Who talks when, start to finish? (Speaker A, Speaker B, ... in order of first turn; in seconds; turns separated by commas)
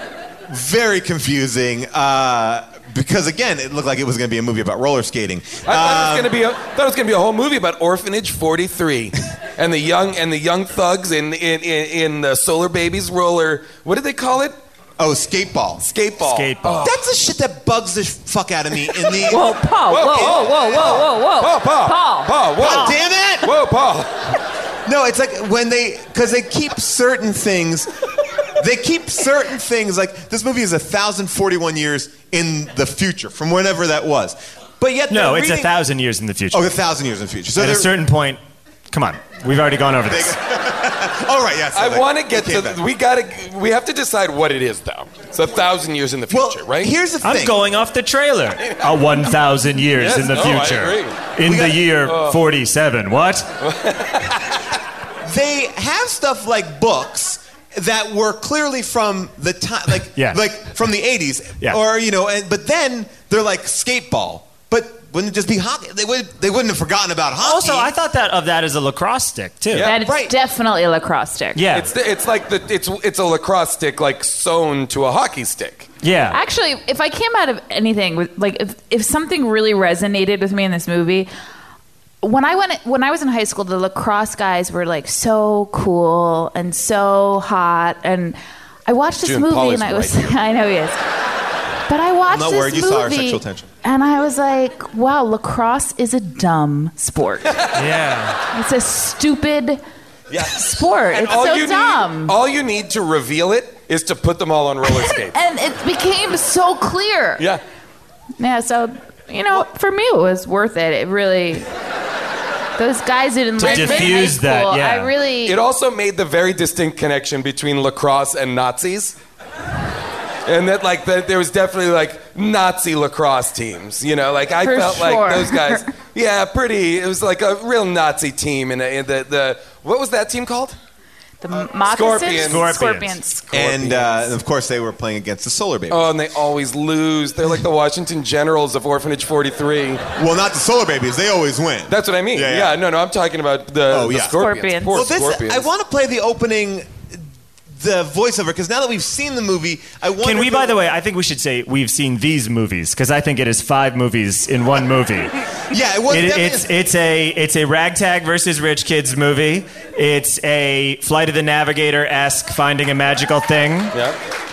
Speaker A: 0.5-6.3, Speaker B: 5.7-14.6, Speaker A: 15.0-15.8, Speaker B: 15.8-16.9, Speaker C: 16.2-16.9, Speaker A: 16.8-19.4, Speaker D: 19.2-23.0, Speaker B: 19.9-24.3, Speaker A: 20.1-21.1, Speaker A: 22.6-23.5, Speaker A: 24.9-27.9, Speaker A: 28.6-35.7, Speaker C: 35.1-36.7, Speaker A: 36.5-37.9, Speaker C: 37.5-40.4, Speaker A: 40.1-42.8, Speaker B: 41.7-46.9, Speaker A: 46.3-47.6, Speaker C: 47.2-53.5, Speaker B: 50.0-51.2, Speaker A: 51.4-51.8, Speaker B: 52.0-52.4, Speaker B: 53.6-54.6, Speaker A: 55.2-67.9, Speaker C: 60.1-60.4, Speaker C: 67.4-69.9, Speaker B: 69.7-70.0, Speaker D: 69.8-71.6, Speaker A: 69.9-70.3, Speaker C: 71.5-71.9, Speaker B: 71.7-75.9, Speaker C: 76.0-76.4, Speaker D: 76.3-81.3, Speaker D: 82.2-91.0, Speaker B: 89.2-90.4, Speaker D: 91.9-97.6, Speaker A: 92.3-93.7, Speaker B: 97.5-98.0, Speaker C: 97.7-98.4, Speaker D: 98.5-99.8, Speaker B: 100.3-105.4, Speaker D: 100.5-102.4, Speaker D: 104.9-107.5, Speaker D: 108.4-111.7, Speaker D: 112.8-115.6, Speaker C: 113.6-115.1, Speaker B: 113.6-114.3, Speaker B: 115.4-119.2, Speaker B: 120.5-130.8, Speaker D: 124.6-125.8, Speaker D: 131.4-134.2, Speaker B: 131.8-132.7, Speaker C: 132.4-133.2, Speaker A: 133.5-136.1, Speaker B: 135.9-140.0, Speaker A: 140.2-142.8, Speaker B: 141.9-145.7, Speaker A: 143.9-144.4, Speaker D: 144.4-145.0, Speaker A: 144.9-146.9, Speaker A: 147.7-150.8, Speaker C: 150.2-155.3, Speaker A: 155.7-156.7, Speaker C: 156.1-163.9